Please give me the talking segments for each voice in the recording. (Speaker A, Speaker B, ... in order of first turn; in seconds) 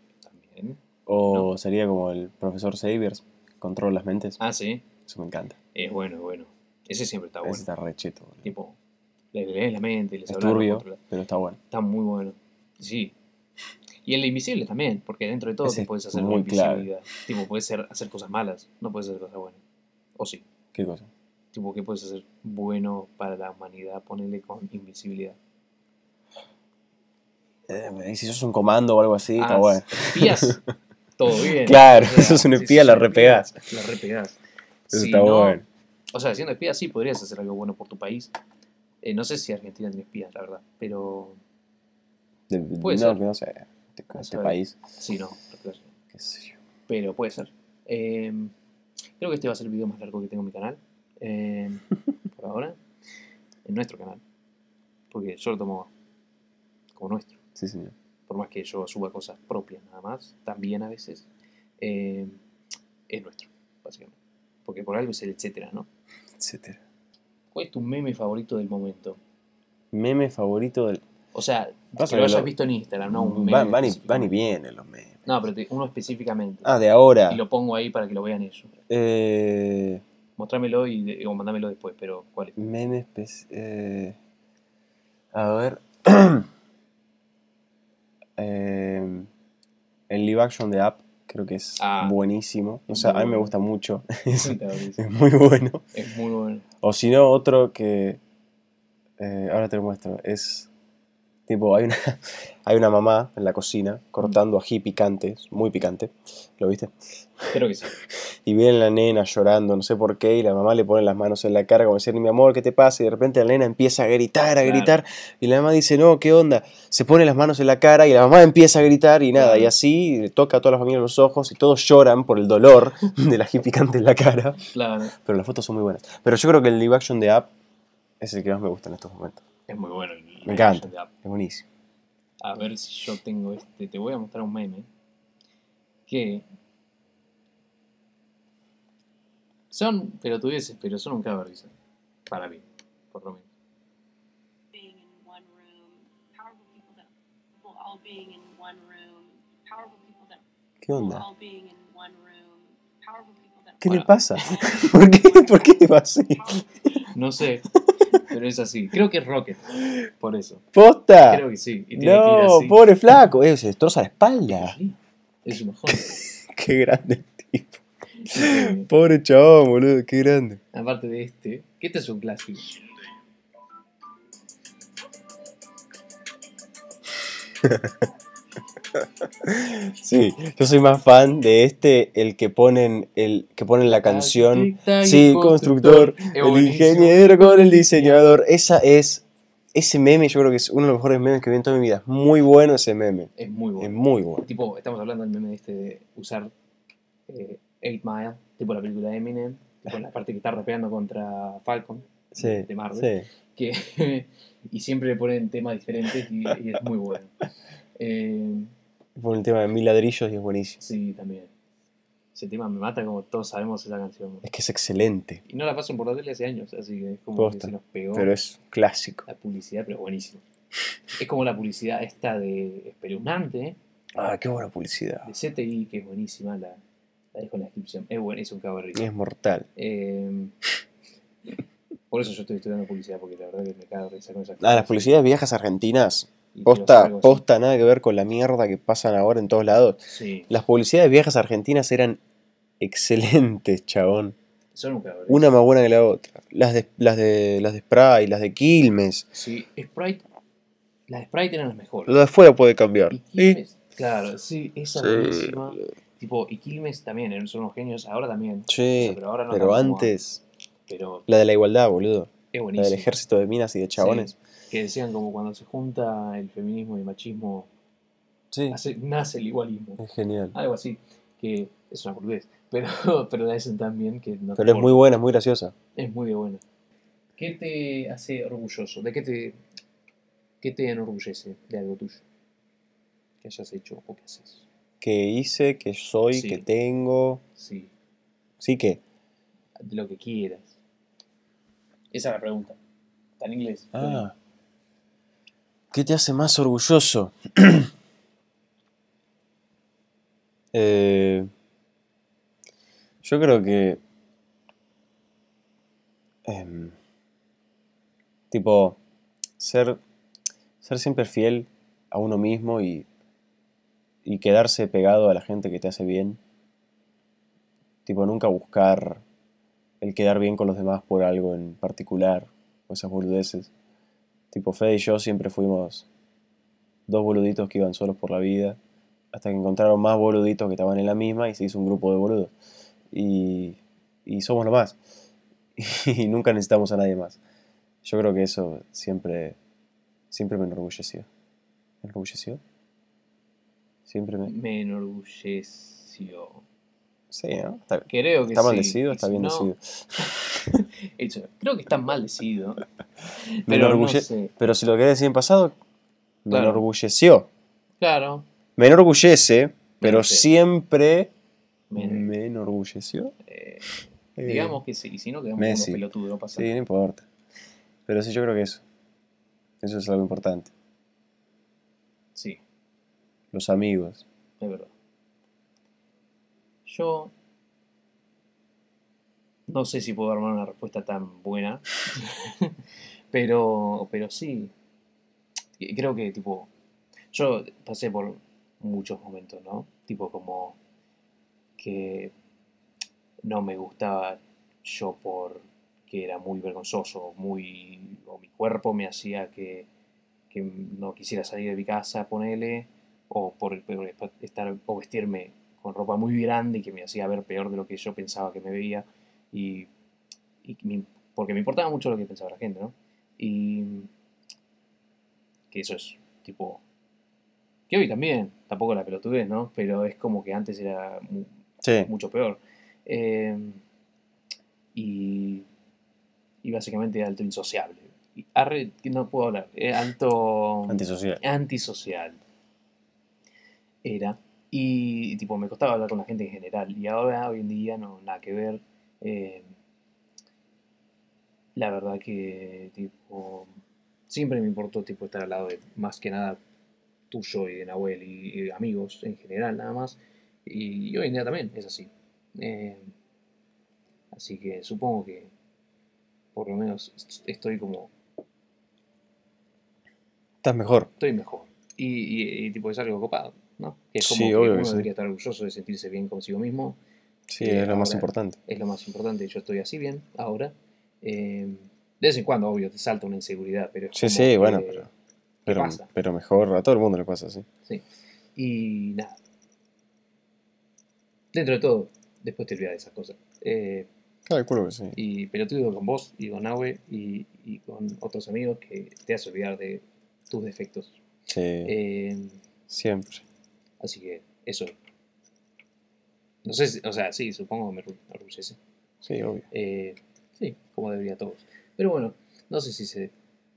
Speaker A: 0.2-1.5, 4.4-4.8, 5.7-7.7, 8.4-8.8, 9.3-11.0, 11.7-13.1, 14.0-19.6, 20.2-20.4, 21.5-25.4, 29.4-30.6, 31.2-34.4, 34.9-35.6, 36.1-38.3, 39.0-41.4, 42.8-43.2, 44.1-45.9, 46.9-48.5, 49.2-52.8, 53.6-54.2, 55.1-55.9, 56.9-57.4, 58.3-61.3, 61.8-62.4, 63.1-65.9, 67.5-69.2, 71.3-74.3, 75.2-76.7, 77.3-78.7, 80.4-82.5, 91.8-92.2, 92.9-93.5, 94.3-95.0, 95.9-96.6, 107.5-108.0, 114.6-114.9, 119.3-119.7, 124.7-125.1, 129.7-131.1, 132.4-134.9, 136.1-136.4, 139.7-141.7, 142.3-143.5, 157.1-160.6, 161.2-162.9, 164.5-166.2, 168.2-168.9, 170.7-172.9, 183.8-188.4, 193.4-196.5, 197.3-207.3, 207.9-208.7, 210.8-211.5, 212.3-214.4, 215.4-218.3, 219.2-220.4, 221.1-223.8, 225.2-226.8, 227.3-229.1, 229.8-230.5, 232.1-235.1, 236.5-237.4, 240.1-240.5, 244.7-245.5, 249.3-250.2, 251.1-252.2, 253.1-260.1, 260.9-261.3, 262.5-263.1, 263.9-267.7, 268.7-270.0, 270.5-275.0, 275.9-276.6, 277.4-279.6, 280.6-282.2, 283.4-284.6, 286.3-286.6, 287.5-287.9, 289.8-290.8, 292.1-292.8, 293.4-294.3, 344.4-346.6, 348.1-352.8, 353.3-354.5, 356.5-356.8, 358.0-358.4, 360.0-360.5, 361.9-362.3, 363.4-366.7, 374.6-374.9, 376.8-377.3, 379.7-382.8, 383.3-384.7, 385.8-386.7, 387.3-390.8, 391.8-392.3, 393.4-399.9, 400.5-409.9, 410.6-414.1, 415.7-416.8, 417.9-421.5, 422.0-423.8, 424.9-425.7, 426.6-432.4, 434.0-439.7, 441.7-443.7, 444.3-446.6, 447.3-453.1, 454.3-455.5, 456.5-458.1, 461.2-467.0, 467.6-475.1, 475.6-476.1, 478.6-479.4, 481.5-484.1, 485.1-491.2, 491.8-492.6, 494.0-494.9, 496.6-498.8, 499.7-503.3
Speaker B: 1.1-4.4, 5.0-5.6, 7.4-8.5, 10.3-11.6, 15.6-16.9, 20.7-21.1, 27.7-30.6, 31.4-33.6, 34.9-35.6, 42.5-44.8, 46.1-46.6, 57.5-57.9, 66.4-66.8, 69.9-71.0, 72.0-72.5, 73.0-75.2, 76.6-77.4, 78.9-80.0, 82.6-84.2, 85.3-86.5, 88.4-89.3, 90.1-95.8, 96.8-98.2, 99.2-100.7, 101.5-107.5, 108.4-127.5, 128.2-129.4, 130.4-131.7, 150.8-151.2, 153.8-156.9, 157.7-158.2, 160.7-164.8, 165.9-170.6, 177.6-178.1, 179.0-194.4, 202.3-203.3, 209.2-210.8, 214.4-215.4, 217.3-219.2, 224.1-225.3, 228.9-229.7, 234.6-242.2, 242.8-244.3, 245.3-249.3, 252.1-253.6, 254.9-255.8, 258.7-260.4, 261.3-264.3, 268.5-268.8, 270.0-270.6, 274.6-275.7, 285.0-287.4, 288.6-289.0, 293.9-294.3, 295.9-297.9, 300.7-301.5, 303.2-304.0, 306.4-307.0, 308.5-309.0, 309.6-310.0, 310.8-313.1, 314.2-316.4, 318.1-319.2, 320.0-323.7, 324.5-326.1, 327.1-328.8, 329.3-332.5, 333.1-335.0, 335.8-337.4, 338.0-339.6, 340.3-341.3, 342.0-342.6, 344.1-344.5, 347.3-350.7, 353.7-355.8, 356.4-357.5, 358.8-361.3, 361.9-363.3, 364.4-364.8, 365.6-366.0, 366.5-367.2, 368.1-368.8, 369.8-370.7, 373.5-374.2, 421.8-422.1, 430.9-431.4, 460.6-461.1, 464.2-465.1, 467.5-468.6, 474.1-475.1, 475.7-477.6, 484.5-485.2, 491.5-491.9, 492.9-493.4, 499.2-499.6
Speaker C: 144.7-150.4, 150.9-155.8, 156.3-157.1